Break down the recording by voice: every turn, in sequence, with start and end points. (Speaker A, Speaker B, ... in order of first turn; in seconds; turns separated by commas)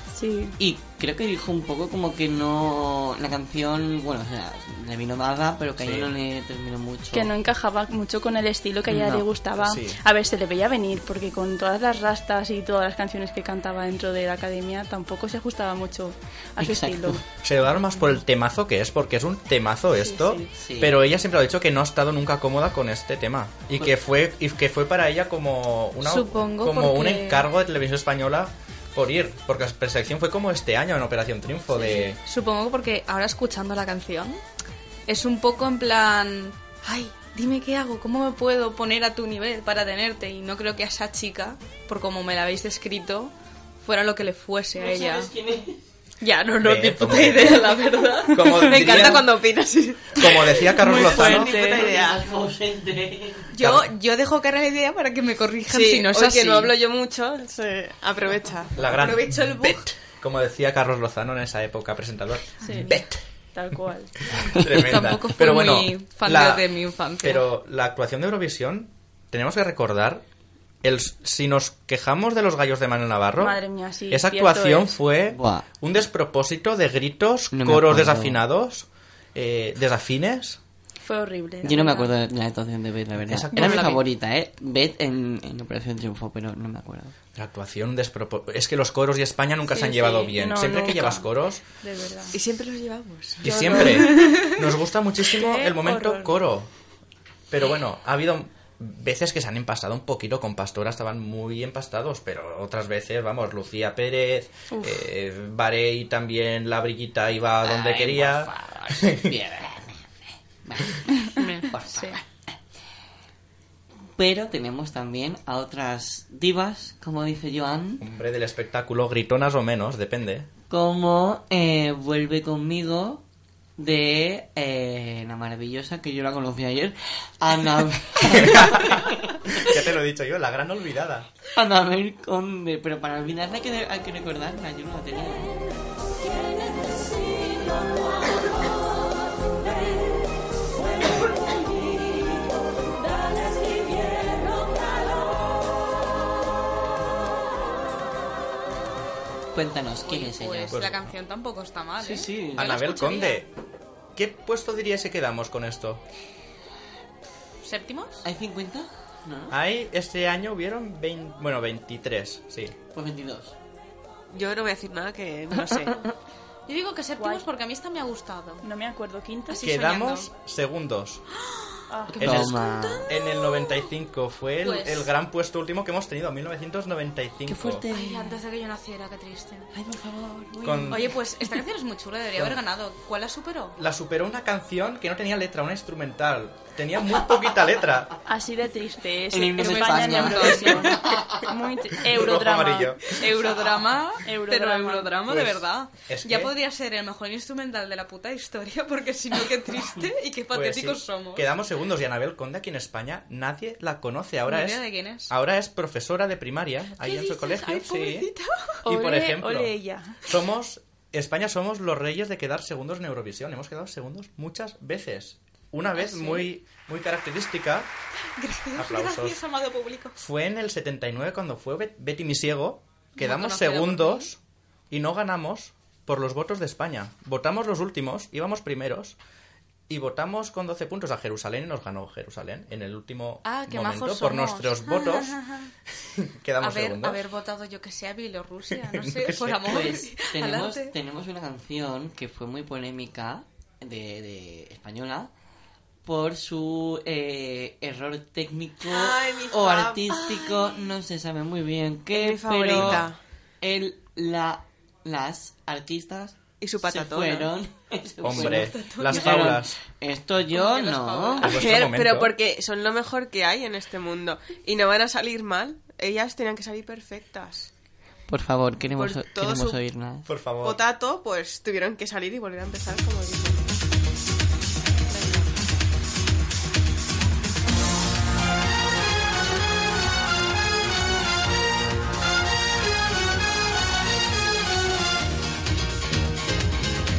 Speaker A: 0.1-0.6, Speaker B: 0.6-7.3, Speaker C: 5.8-6.1, Speaker A: 7.1-17.2, Speaker B: 8.9-9.3, Speaker C: 9.6-10.0, Speaker B: 16.6-17.2, Speaker C: 17.4-32.2, Speaker A: 20.0-20.5, Speaker B: 20.6-21.0, Speaker D: 26.0-27.5, Speaker D: 31.8-34.4, Speaker D: 35.1-45.3, Speaker B: 44.8-45.8, Speaker D: 46.2-49.1, Speaker C: 46.6-47.8, Speaker C: 48.3-49.3, Speaker E: 48.6-52.3, Speaker C: 50.1-51.6, Speaker A: 50.8-51.9, Speaker B: 51.3-53.5, Speaker D: 53.5-56.7, Speaker C: 53.6-53.9, Speaker E: 55.7-58.8, Speaker C: 58.8-63.2, Speaker D: 58.8-59.9, Speaker A: 62.6-63.0, Speaker A: 63.5-64.1, Speaker C: 64.3-66.7, Speaker D: 64.6-67.5, Speaker C: 67.2-70.2, Speaker C: 70.8-80.6, Speaker A: 73.4-75.0, Speaker B: 75.3-75.7, Speaker B: 77.5-78.4, Speaker A: 81.0-82.1, Speaker B: 81.6-87.1, Speaker C: 83.2-84.0, Speaker D: 83.6-83.8, Speaker C: 87.3-91.6, Speaker A: 89.7-91.3, Speaker A: 91.8-92.4, Speaker E: 92.3-94.0, Speaker C: 93.4-96.7, Speaker D: 93.8-94.6, Speaker A: 95.4-96.3, Speaker C: 97.5-109.3, Speaker A: 104.7-105.0, Speaker B: 107.6-112.2, Speaker D: 111.3-112.2, Speaker B: 114.2-118.0, Speaker C: 118.0-120.5, Speaker B: 120.7-123.2, Speaker B: 123.8-129.8, Speaker C: 128.3-131.3, Speaker B: 131.6-135.5, Speaker F: 136.2-140.2, Speaker F: 141.1-141.8, Speaker F: 143.1-145.3, Speaker B: 149.5-150.8, Speaker D: 150.1-153.4, Speaker C: 150.7-151.1, Speaker B: 152.0-152.7, Speaker C: 152.6-153.5, Speaker C: 154.1-156.0, Speaker D: 157.6-158.2, Speaker B: 158.2-159.6, Speaker C: 159.5-162.8, Speaker B: 162.9-163.6, Speaker E: 164.3-166.1, Speaker D: 166.7-168.7, Speaker A: 167.2-167.5, Speaker A: 168.6-169.6, Speaker D: 169.5-170.3, Speaker C: 169.6-171.2, Speaker D: 171.3-173.9, Speaker A: 171.9-172.2, Speaker C: 172.2-172.6, Speaker B: 172.2-173.1, Speaker C: 173.1-177.8, Speaker D: 174.6-175.1, Speaker B: 177.5-178.4, Speaker D: 177.9-179.7, Speaker B: 179.7-181.1, Speaker C: 180.6-181.1, Speaker D: 180.9-183.8, Speaker C: 182.3-182.6, Speaker C: 183.8-188.1, Speaker A: 188.2-193.0, Speaker B: 189.3-191.5, Speaker D: 189.6-191.0, Speaker C: 192.0-193.1, Speaker D: 193.1-201.5, Speaker A: 194.2-195.2, Speaker C: 195.3-196.5, Speaker C: 200.5-208.3, Speaker D: 204.5-205.3, Speaker D: 207.0-208.8, Speaker A: 208.8-210.2, Speaker C: 208.8-217.9, Speaker D: 216.0-216.4, Speaker D: 218.4-220.2, Speaker C: 218.8-219.4, Speaker C: 220.2-224.4, Speaker D: 223.2-224.3, Speaker C: 224.9-229.2, Speaker C: 229.9-235.4, Speaker D: 233.4-235.7, Speaker C: 236.0-237.2, Speaker D: 236.6-240.9, Speaker C: 238.7-239.8, Speaker B: 239.6-245.3, Speaker B: 246.0-253.1, Speaker E: 248.9-250.8, Speaker E: 252.1-253.2, Speaker C: 252.7-253.0, Speaker B: 253.6-261.6, Speaker E: 256.6-257.5, Speaker C: 258.2-259.8, Speaker D: 258.4-259.3, Speaker D: 260.5-261.5, Speaker C: 261.4-262.3, Speaker E: 261.4-267.7, Speaker B: 268.3-270.3, Speaker E: 268.9-269.8, Speaker C: 270.2-270.8, Speaker E: 270.6-273.8, Speaker D: 275.1-275.5